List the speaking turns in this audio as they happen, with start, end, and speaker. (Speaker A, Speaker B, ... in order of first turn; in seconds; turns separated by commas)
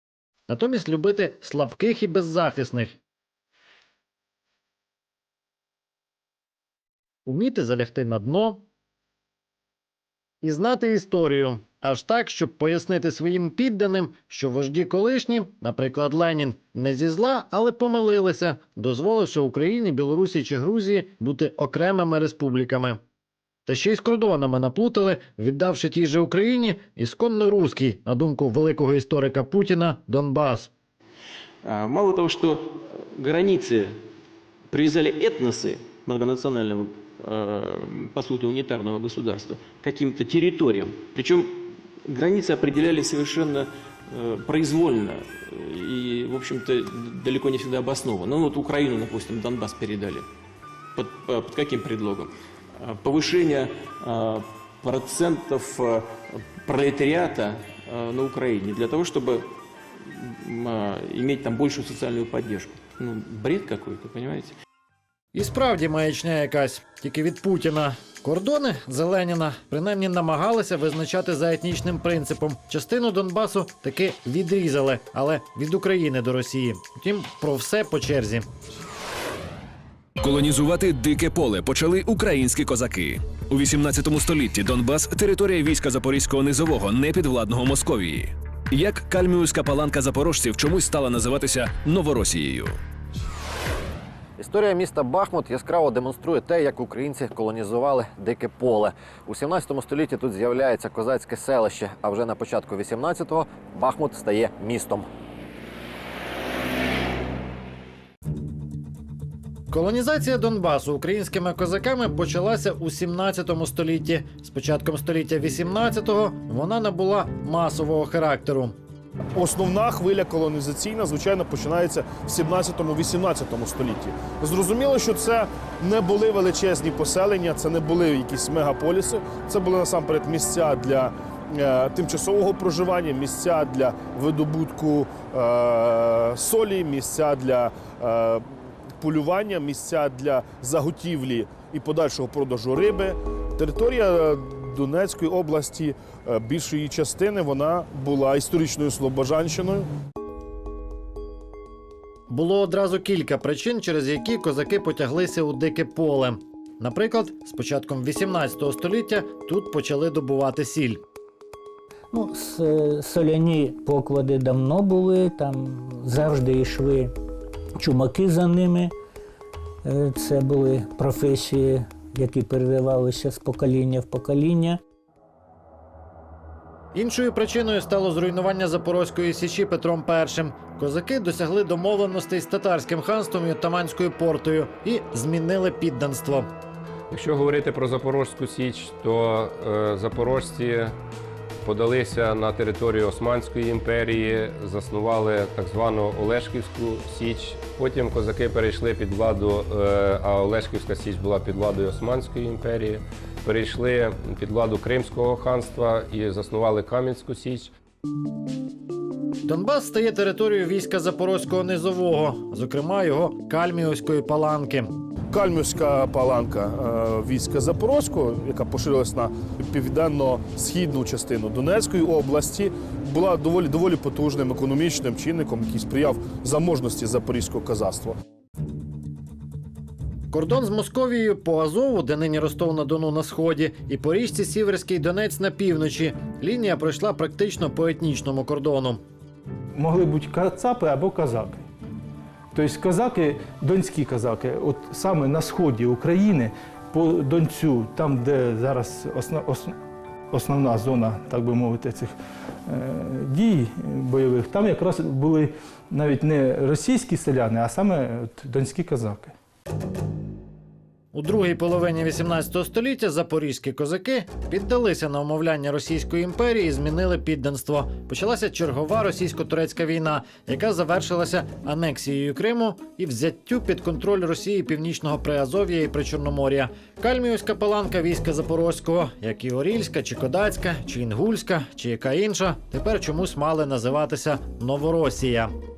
Speaker A: 0.5-3.0, Speaker A: 7.2-8.6, Speaker A: 10.4-23.0, Speaker A: 23.6-30.7, Speaker B: 31.6-34.0, Speaker B: 34.7-50.3, Speaker B: 51.0-59.5, Speaker B: 60.1-64.5, Speaker A: 65.3-78.5, Speaker C: 80.2-92.8, Speaker A: 94.4-105.0, Speaker A: 109.7-118.7, Speaker D: 119.3-149.9, Speaker A: 152.3-161.0, Speaker E: 162.1-167.1, Speaker E: 167.8-168.9, Speaker E: 169.8-174.8, Speaker A: 176.9-186.5, Speaker F: 187.1-191.0, Speaker F: 191.6-207.7, Speaker A: 209.4-214.9, Speaker D: 215.3-228.2, Speaker A: 230.3-239.0, Speaker G: 239.7-241.7, Speaker G: 242.5-249.7, Speaker G: 250.3-252.2, Speaker G: 252.7-259.3, Speaker A: 261.1-285.5